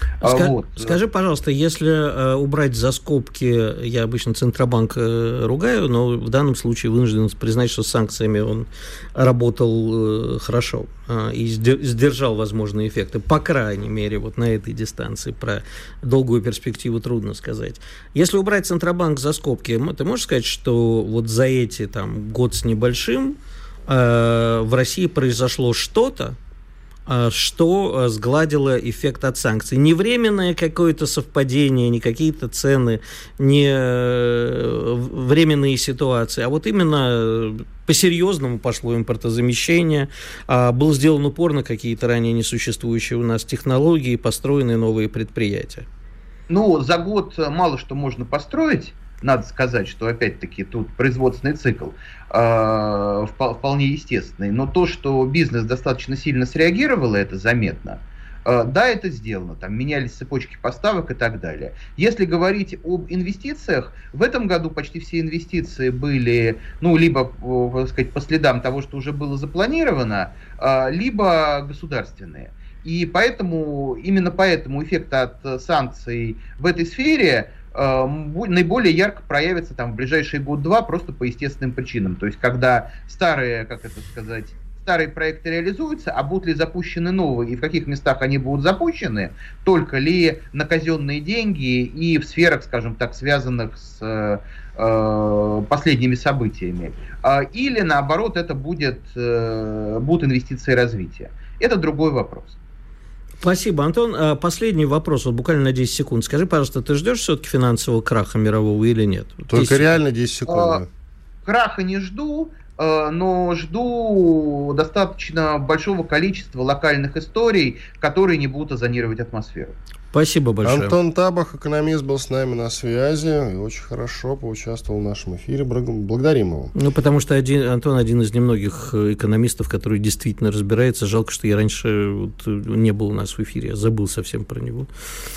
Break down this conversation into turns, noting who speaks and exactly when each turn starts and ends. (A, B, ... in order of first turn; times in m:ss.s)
0:00.2-0:01.0 A
0:00.2-0:26.4 B
0:27.1-0:45.9 B
0:46.5-1:42.6 A
1:43.4-1:49.9 B
1:49.5-1:50.9 C
1:50.5-1:50.8 A
1:51.5-1:59.8 A
2:00.1-2:01.0 B
2:00.6-2:06.7 C
2:06.8-2:14.9 B